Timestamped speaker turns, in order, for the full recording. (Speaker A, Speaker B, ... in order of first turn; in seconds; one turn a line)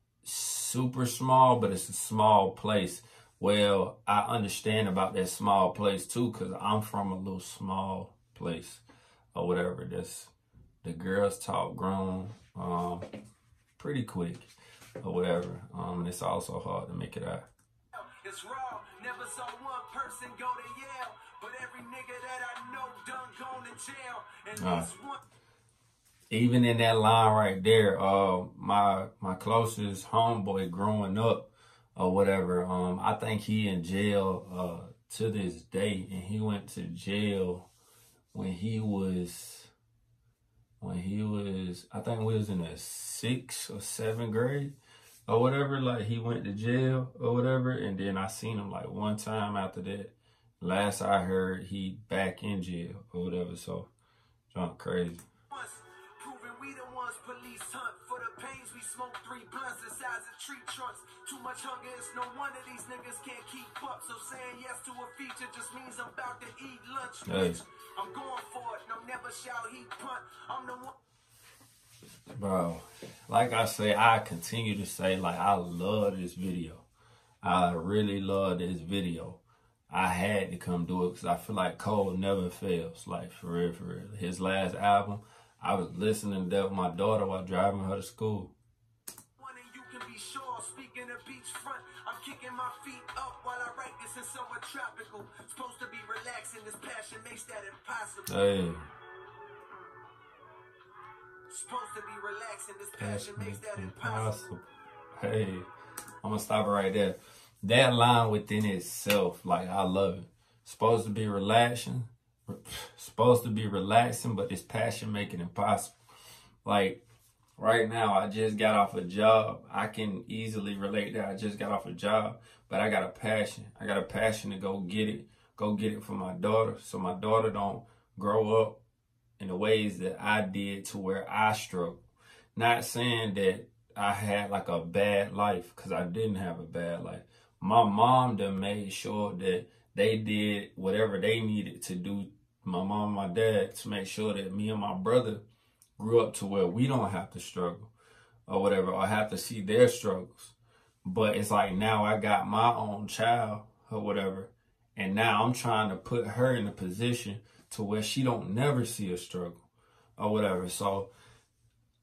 Speaker A: 0.2-8.8
Speaker A: 9.3-10.3
Speaker A: 10.8-13.0
Speaker A: 13.8-17.5
Speaker B: 17.9-25.2
Speaker A: 24.6-24.9
Speaker A: 26.3-37.7
Speaker A: 38.3-39.7
Speaker A: 40.8-53.9
Speaker A: 54.5-55.2
Speaker B: 55.5-70.9
Speaker A: 67.2-67.6
Speaker A: 72.3-76.8
Speaker A: 77.4-88.5
Speaker B: 89.4-98.3
Speaker A: 98.3-98.9
Speaker B: 101.5-104.4
Speaker A: 103.0-104.6
Speaker A: 105.1-105.7
Speaker A: 106.2-116.0
Speaker A: 116.6-117.0
Speaker A: 117.6-128.8
Speaker A: 129.4-132.0
Speaker A: 132.5-145.4
Speaker A: 146.0-147.9
Speaker A: 148.5-159.6
Speaker A: 160.2-161.1